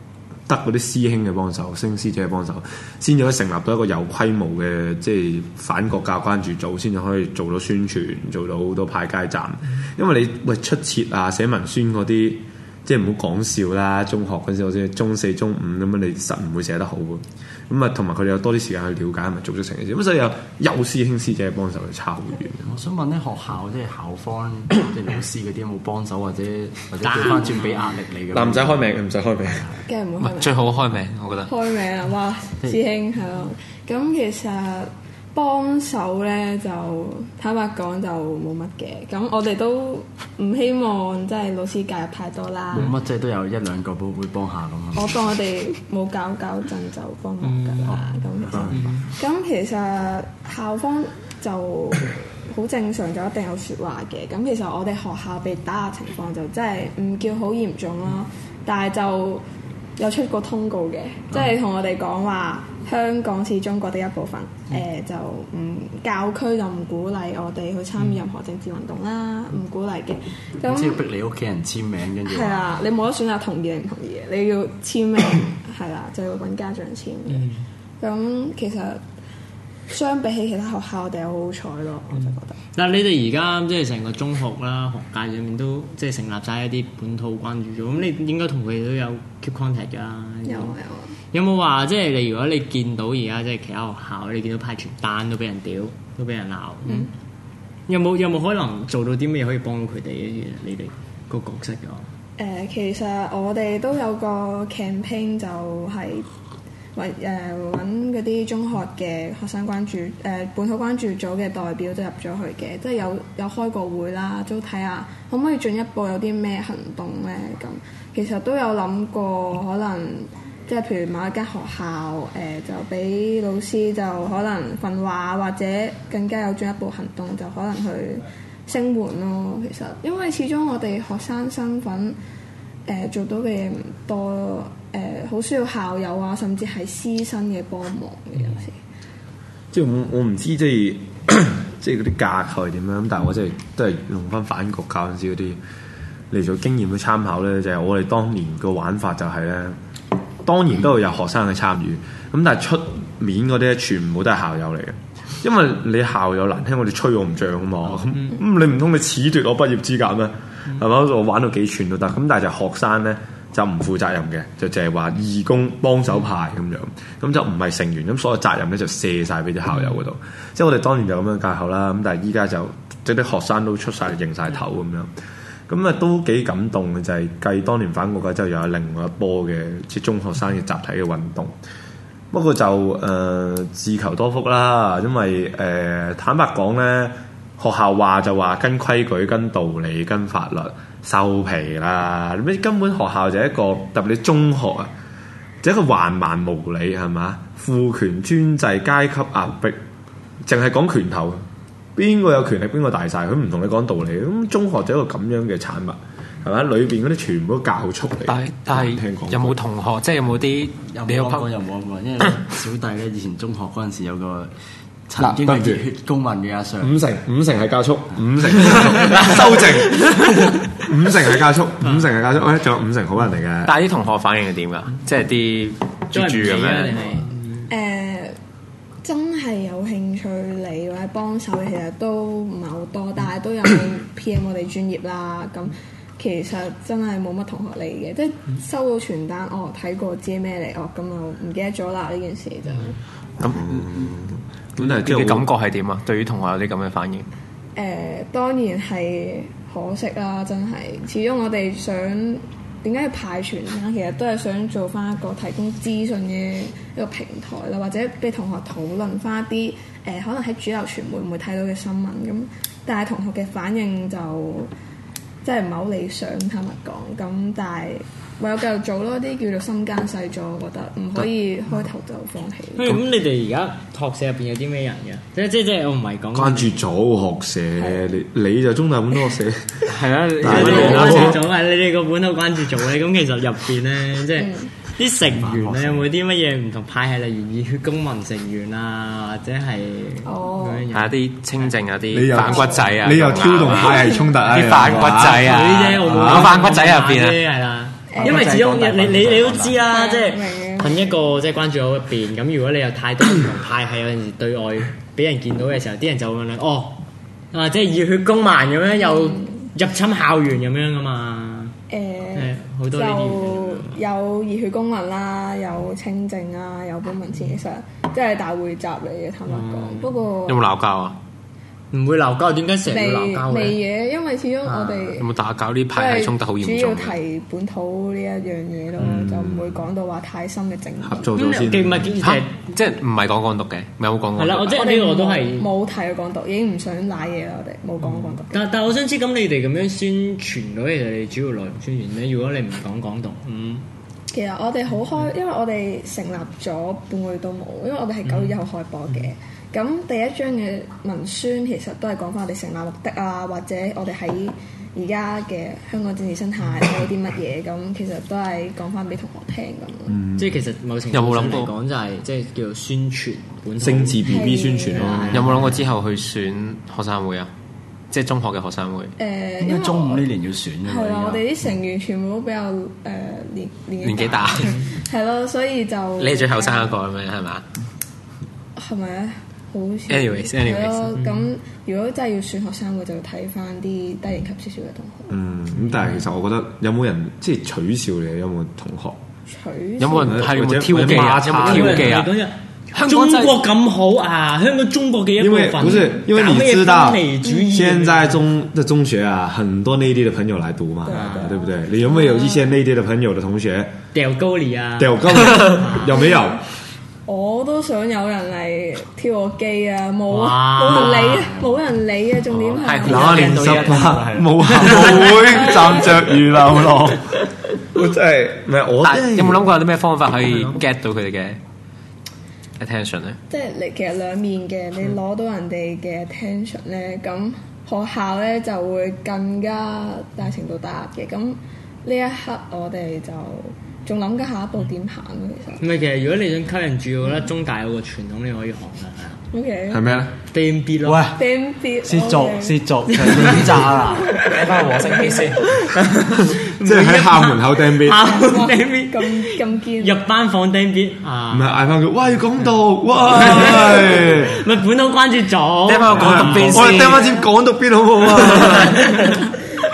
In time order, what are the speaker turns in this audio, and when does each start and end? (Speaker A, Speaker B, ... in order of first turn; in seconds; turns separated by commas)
Speaker A: 0.5-22.7, Speaker B: 22.6-28.9, Speaker C: 27.0-27.9, Speaker A: 28.3-29.7, Speaker B: 29.6-29.8, Speaker D: 29.9-30.5, Speaker E: 30.2-31.5, Speaker D: 31.4-43.0, Speaker B: 42.7-45.2, Speaker D: 44.9-59.4, Speaker C: 47.4-49.0, Speaker B: 47.9-48.9, Speaker D: 60.0-71.0, Speaker B: 70.7-72.6, Speaker D: 72.3-77.5, Speaker C: 77.3-77.6, Speaker D: 78.0-79.0, Speaker D: 79.9-82.6, Speaker C: 82.7-90.7, Speaker D: 90.5-91.1, Speaker C: 91.3-97.1, Speaker C: 97.9-102.1, Speaker D: 102.4-106.3, Speaker D: 106.9-132.2, Speaker D: 132.8-138.8, Speaker A: 139.7-145.6, Speaker A: 146.3-149.8, Speaker A: 150.4-175.1, Speaker C: 157.9-158.4, Speaker A: 175.7-181.5, Speaker A: 182.3-194.9, Speaker A: 195.6-199.8, Speaker A: 200.4-201.4, Speaker A: 201.9-209.6, Speaker E: 208.2-211.4, Speaker B: 210.9-214.5, Speaker B: 215.1-216.9, Speaker A: 215.2-215.8, Speaker A: 216.8-223.8, Speaker E: 223.6-227.2, Speaker C: 226.1-227.7, Speaker D: 227.7-228.3, Speaker D: 229.0-242.9, Speaker E: 243.4-243.9, Speaker A: 243.4-245.5, Speaker E: 244.8-247.3, Speaker D: 247.7-264.7, Speaker D: 265.4-273.0, Speaker C: 272.8-276.7, Speaker A: 276.3-281.4, Speaker D: 277.8-278.1, Speaker E: 279.9-281.3, Speaker D: 280.4-281.4, Speaker C: 280.4-291.7, Speaker D: 284.4-284.7, Speaker D: 290.2-290.9, Speaker E: 290.9-297.4, Speaker A: 292.1-295.5, Speaker D: 292.4-293.0, Speaker D: 293.6-294.3, Speaker C: 295.2-311.7, Speaker A: 296.1-296.5, Speaker D: 298.1-298.6, Speaker B: 298.1-299.8, Speaker D: 299.9-301.1, Speaker D: 309.0-309.6, Speaker D: 311.9-320.6, Speaker C: 312.4-314.0, Speaker C: 319.5-320.1, Speaker E: 320.4-321.2, Speaker C: 321.9-323.8, Speaker D: 322.9-325.3, Speaker C: 324.6-325.1, Speaker E: 325.1-327.2, Speaker D: 325.9-331.3, Speaker A: 329.0-329.8, Speaker A: 331.0-332.1, Speaker C: 331.4-332.7, Speaker E: 332.2-334.8, Speaker C: 334.4-335.7, Speaker D: 334.7-338.6, Speaker C: 338.0-343.8, Speaker D: 344.3-360.2, Speaker C: 348.2-348.6, Speaker A: 360.1-360.5, Speaker C: 360.4-365.6, Speaker E: 361.1-361.7, Speaker A: 363.8-365.8, Speaker D: 364.2-365.6, Speaker E: 365.3-367.5, Speaker E: 368.1-369.1, Speaker D: 369.2-370.2, Speaker B: 369.6-371.5, Speaker D: 370.8-376.9, Speaker E: 374.0-374.8, Speaker E: 376.2-377.6, Speaker D: 378.8-385.4, Speaker E: 380.1-381.1, Speaker C: 381.1-381.5, Speaker A: 385.3-389.2, Speaker D: 389.5-390.6, Speaker E: 390.0-392.3, Speaker A: 390.2-392.2, Speaker C: 391.2-398.4, Speaker E: 392.9-393.6, Speaker A: 395.4-403.9, Speaker D: 401.0-402.7, Speaker C: 401.1-401.6, Speaker C: 404.1-406.3, Speaker A: 405.0-406.6, Speaker D: 406.1-406.6, Speaker D: 407.2-413.5, Speaker C: 410.3-411.6, Speaker E: 412.6-414.2, Speaker B: 413.0-415.6, Speaker A: 413.0-419.7, Speaker D: 415.1-416.3, Speaker B: 416.3-417.0, Speaker E: 419.0-421.6, Speaker C: 420.5-420.8, Speaker E: 422.8-423.4, Speaker D: 423.5-435.8, Speaker C: 435.8-439.4, Speaker D: 439.5-440.1, Speaker A: 439.9-440.3, Speaker C: 440.5-441.3, Speaker B: 441.0-441.4, Speaker D: 441.3-445.7, Speaker B: 442.0-444.3, Speaker C: 443.1-443.6, Speaker E: 444.4-445.6, Speaker C: 445.8-451.8, Speaker A: 446.5-448.2, Speaker D: 448.2-450.2, Speaker A: 451.5-454.6, Speaker C: 453.3-456.9, Speaker D: 453.6-454.1, Speaker E: 455.9-457.3, Speaker A: 456.1-459.2, Speaker D: 456.9-457.5, Speaker C: 458.6-459.4